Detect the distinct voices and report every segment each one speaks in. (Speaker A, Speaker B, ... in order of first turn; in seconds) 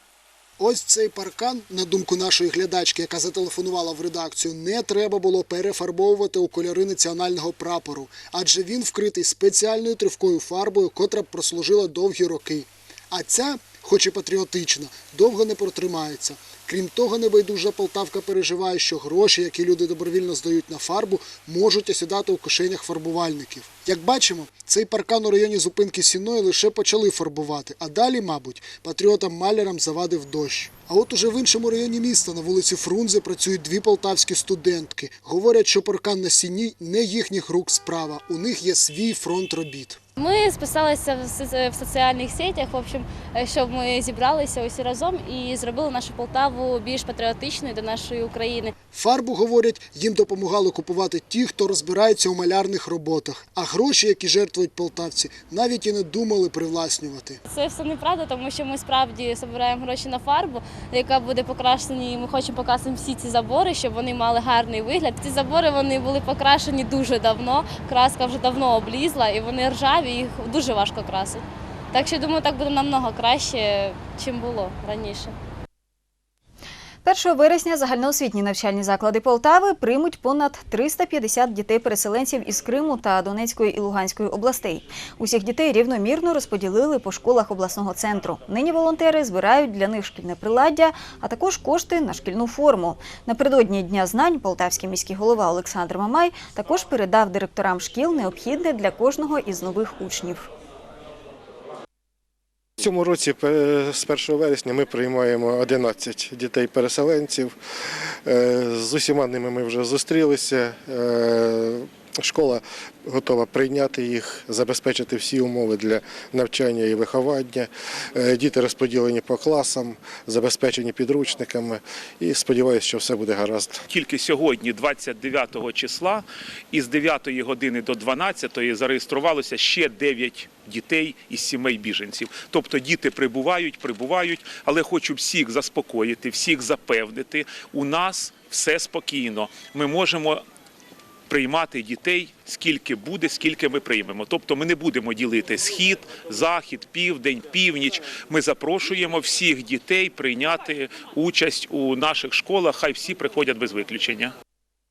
Speaker A: 0.6-40.0, 48.9-57.4
Speaker B: 40.2-48.7, 57.5-75.3
Speaker C: 77.0-100.5
Speaker D: 102.8-107.5, 108.2-123.8
Speaker E: 123.9-140.4, 141.3-154.3